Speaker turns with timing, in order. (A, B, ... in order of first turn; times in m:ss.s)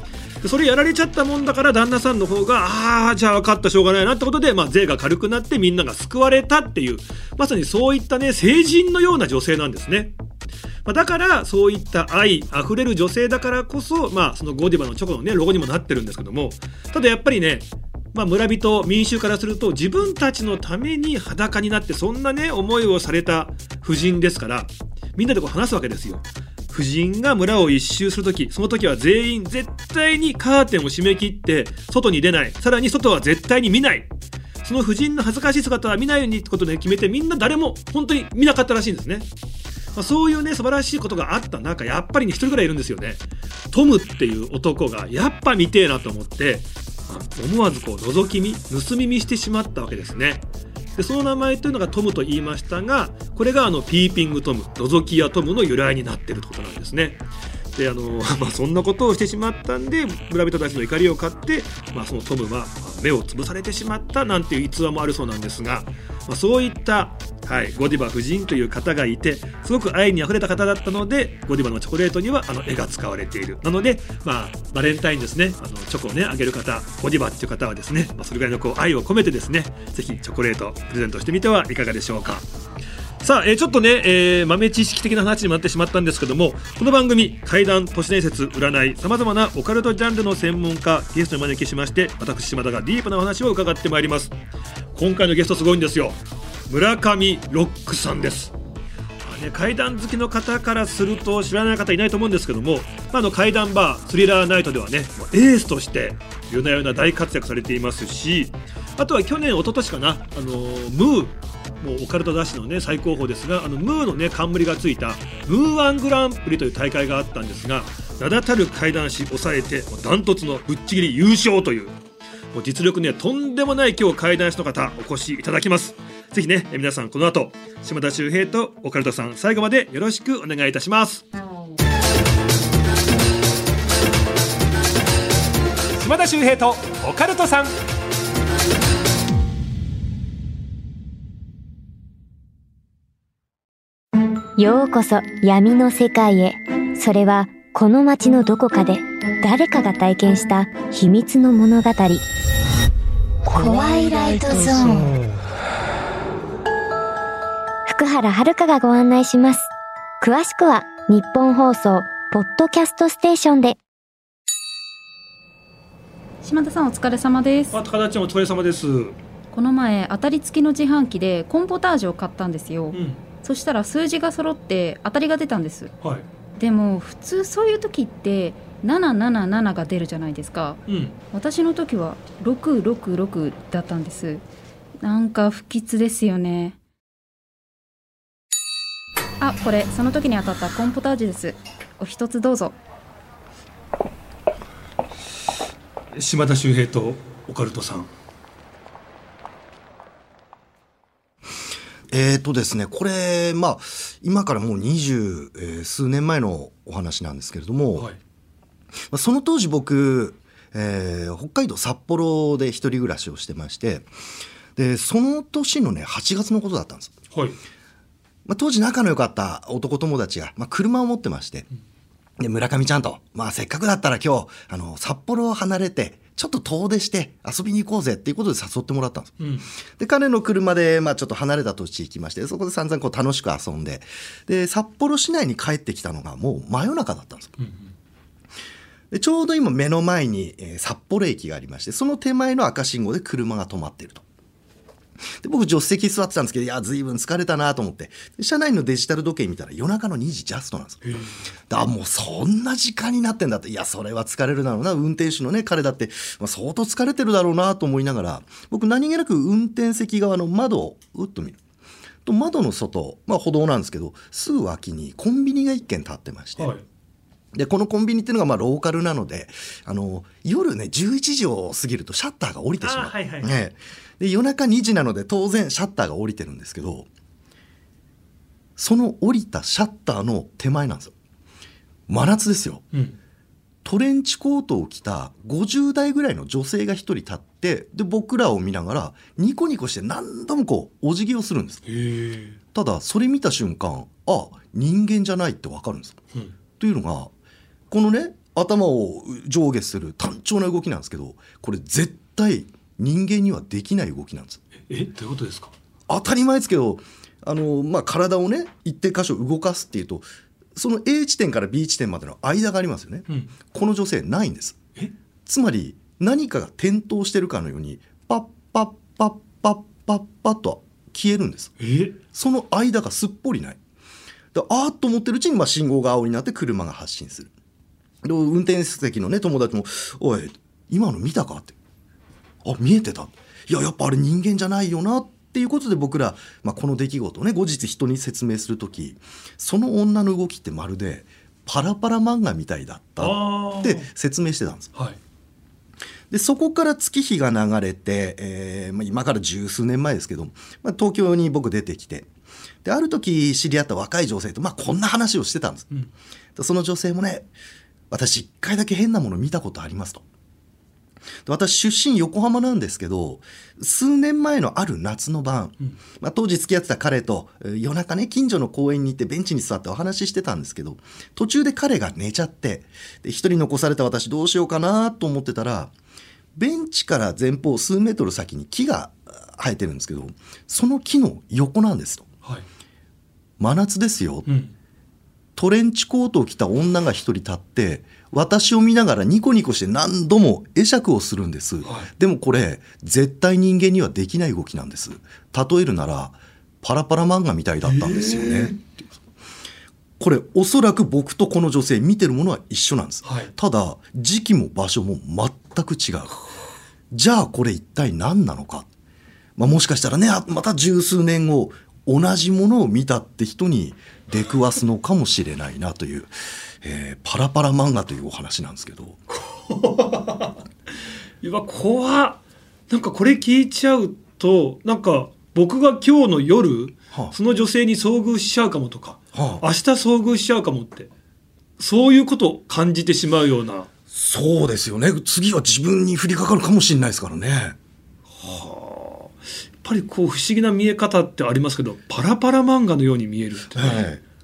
0:00.4-0:10.1 A
0:10.8-0:34.1 A
0:34.6-0:39.3 A
0:39.9-0:50.4 A
0:51.0-0:57.2 A
0:57.7-1:22.5 A
1:23.2-1:34.3 A
1:34.9-1:38.5 A
1:39.2-2:02.0 A
2:02.5-2:11.2 A
2:16.0-2:17.7 A
2:24.6-2:32.2 B
2:33.4-2:35.2 B
2:37.8-2:39.7 B
2:40.2-2:43.8 B
2:46.4-2:47.7 C
2:47.7-2:49.2 A
2:49.5-2:55.9 C
2:52.9-2:53.2 A
2:56.6-3:04.4 C
3:00.9-3:01.2 A
3:05.0-3:06.8 C
3:09.4-3:12.7 C
3:16.1-3:18.1 A
3:22.1-3:28.1 D
3:29.1-3:34.1 D
3:34.8-3:37.1 D
3:38.4-3:41.7 D
3:42.4-3:49.4 D
3:49.4-3:49.6 A
3:50.0-3:57.6 D
3:57.6-3:57.9 A
3:59.1-4:04.2 D
4:05.4-4:11.0 D
4:11.0-4:11.4 A
4:11.7-4:21.6 D
4:22.2-4:26.7 D
4:26.6-4:26.8 A
4:27.5-4:37.1 D
4:32.8-4:33.5 A
4:38.8-4:41.1 D
4:42.1-4:42.8 D
4:43.8-4:51.8 D
4:51.8-4:52.6 A
4:52.7-4:56.2 D
4:56.8-4:57.3 D
4:57.9-5:04.6 D
5:04.8-5:05.7 A
5:06.1-5:14.8 D
5:15.4-5:21.8 D
5:21.8-5:22.2 A
5:22.3-5:23.8 D
5:24.5-5:27.5 D
5:28.2-5:31.8 D
5:32.6-5:44.9 D
5:43.2-5:44.0 A
5:46.3-5:52.3 D
5:52.8-5:55.9 D
5:56.6-5:57.5 D
5:58.1-6:00.2 D
6:01.4-6:15.9 D
6:16.5-6:22.3 D
6:23.6-6:24.5 D
6:24.4-6:24.7 A
6:25.6-6:39.0 D
6:31.8-6:32.1 A
6:37.8-6:38.8 A
6:40.2-6:46.4 D
6:43.2-6:43.5 A
6:47.1-6:48.9 D
6:49.6-6:59.2 D
6:59.3-7:00.6 A
7:01.4-7:11.1 A
7:09.3-7:09.6 D
7:11.8-7:13.9 A
7:14.1-7:17.8 D
7:18.4-7:24.1 A
7:23.7-7:24.2 D